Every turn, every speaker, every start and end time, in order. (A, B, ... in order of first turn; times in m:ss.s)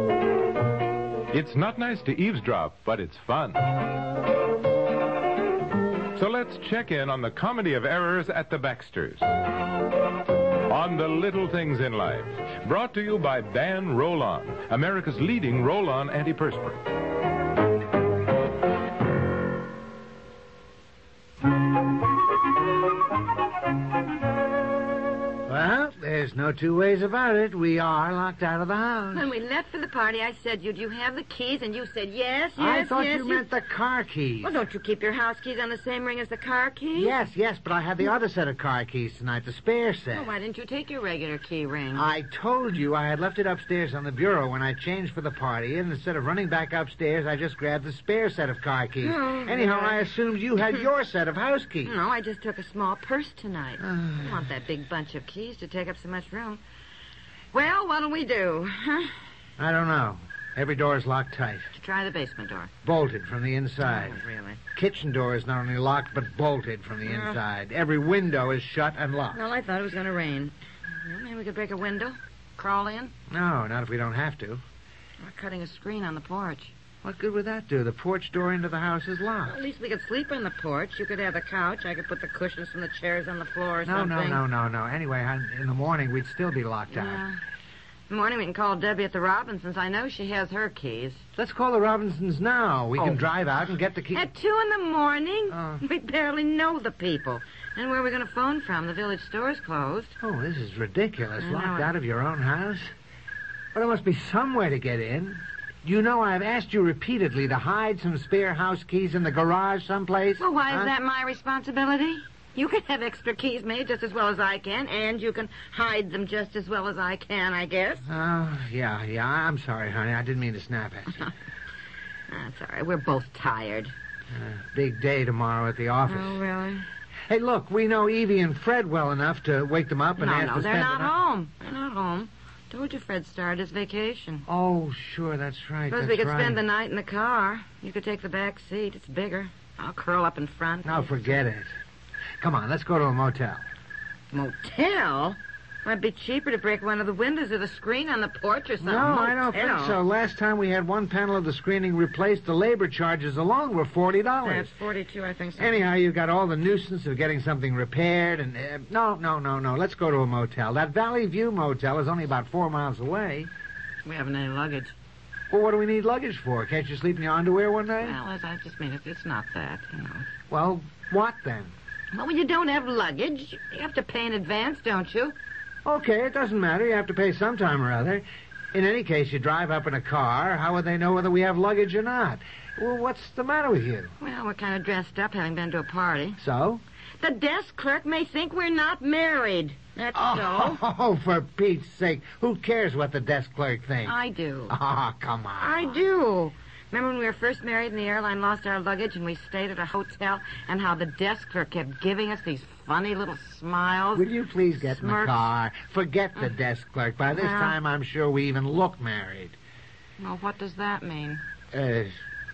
0:01.3-0:03.6 A
0:06.2-0:09.2 A
0:10.7-0:16.8 A
0:25.5-0:29.2 B
0:29.1-0:33.5 C
0:32.6-0:34.6 B
0:34.4-0:37.2 C
0:37.0-0:40.3 B
0:40.1-0:42.1 C
0:41.9-0:52.0 B
0:49.0-0:50.0 C
0:51.8-0:56.6 C
0:53.8-0:54.4 B
0:57.5-0:59.1 C
0:59.6-1:01.7 B
1:01.7-1:02.7 C
1:02.8-1:04.2 B
1:03.8-1:04.6 C
1:04.8-1:09.4 B
1:07.0-1:07.4 C
1:09.3-1:13.1 C
1:13.3-1:14.6 B
1:15.2-1:16.7 C
1:17.0-1:19.6 B
1:19.4-1:24.4 C
1:23.8-1:27.2 B
1:26.9-1:27.4 C
1:28.1-1:31.2 C
1:31.4-1:34.3 B
1:33.0-1:33.2 C
1:34.1-1:40.2 C
1:35.5-1:35.8 B
1:40.2-1:42.9 B
1:41.4-1:41.9 C
1:43.7-1:50.9 B
1:50.4-1:58.1 C
1:58.1-2:01.3 B
2:02.3-2:03.9 C
2:04.3-2:06.4 B
2:06.1-2:06.9 C
2:07.3-2:11.1 B
2:10.2-2:14.4 C
2:14.5-2:16.6 B
2:15.9-2:21.4 C
2:20.8-2:21.7 B
2:22.4-2:23.6 B
2:24.3-2:30.0 C
2:28.8-2:34.7 B
2:34.4-2:35.8 C
2:35.6-2:43.5 B
2:44.0-2:45.0 C
2:45.5-2:48.2 B
2:48.0-2:50.3 C
2:50.5-2:51.7 B
2:52.1-2:55.4 C
2:55.8-3:04.1 B
3:04.2-3:06.4 C
3:06.4-3:06.8 B
3:07.2-3:10.8 C
3:10.1-3:14.2 B
3:14.0-3:14.7 C
3:14.7-3:16.0 B
3:15.6-3:24.3 C
3:24.2-3:29.6 B
3:24.8-3:25.5 C
3:27.3-3:27.8 C
3:30.2-3:31.4 C
3:31.7-3:32.1 B